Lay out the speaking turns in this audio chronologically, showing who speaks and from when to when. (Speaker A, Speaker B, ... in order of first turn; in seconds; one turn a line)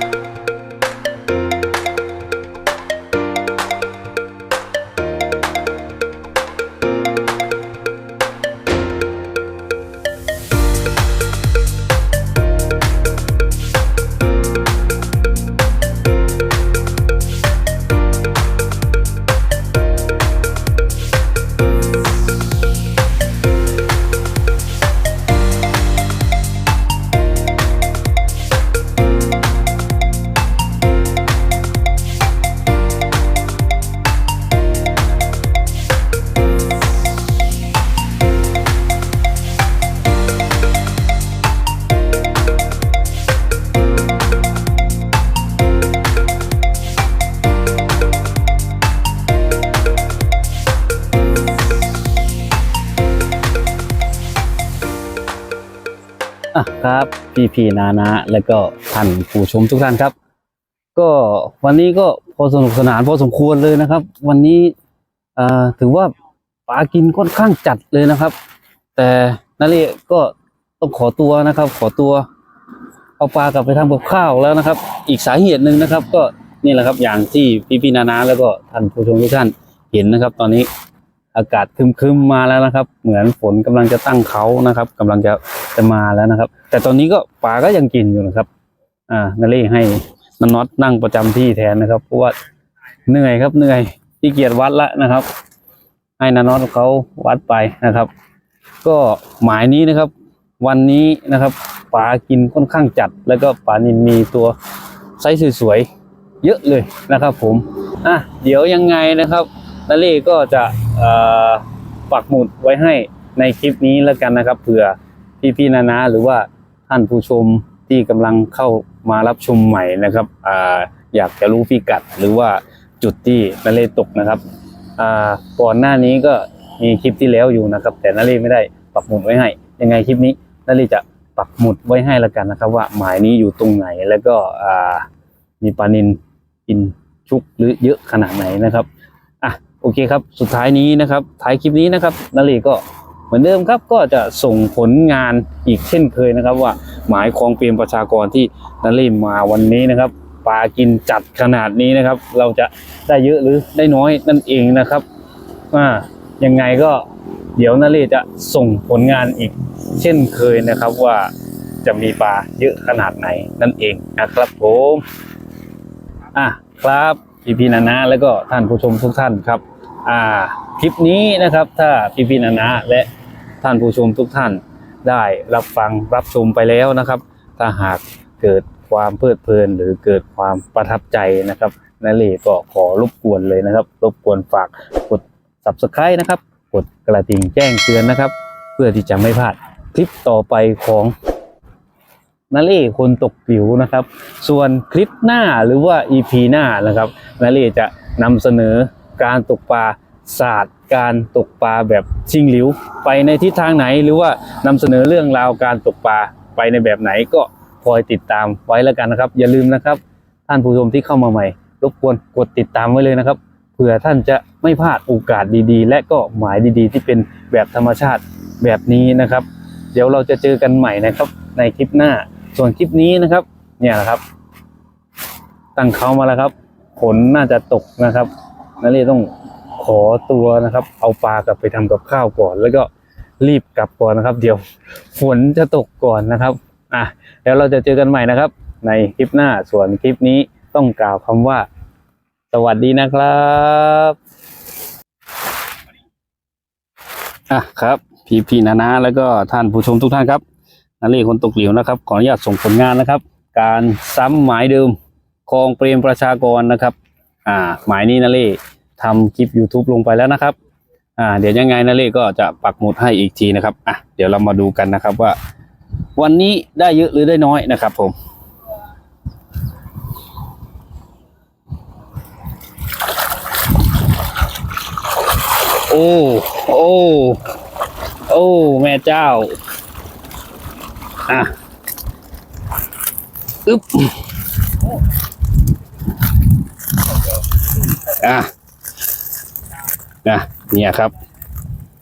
Speaker A: 56.5-60.1
Speaker A: 60.9-64.7
Speaker A: 65.4-66.1
Speaker A: 66.7-68.3
Speaker A: 69.0-72.2
Speaker A: 73.2-80.7
Speaker A: 81.3-88.5
Speaker A: 89.1-92.3
Speaker A: 93.1-95.3
Speaker A: 96.2-98.1
Speaker A: 98.8-104.5
Speaker A: 105.2-105.9
Speaker A: 106.4-124.4
Speaker A: 125.0-135.1
Speaker A: 135.6-138.9
Speaker A: 139.4-155.0
Speaker A: 155.7-161.3
Speaker A: 161.8-165.0
Speaker A: 166.3-173.1
Speaker A: 173.6-191.1
Speaker A: 192.5-224.2
Speaker A: 225.8-232.9
Speaker A: 233.4-234.6
Speaker A: 235.1-241.7
Speaker A: 242.5-244.2
Speaker A: 247.5-250.4
Speaker A: 251.0-260.6
Speaker A: 261.2-265.4
Speaker A: 266.1-268.1
Speaker A: 275.9-277.4
Speaker A: 278.3-279.6
Speaker A: 281.3-281.5
Speaker A: 283.6-284.2
Speaker A: 288.1-288.5
Speaker A: 290.2-291.1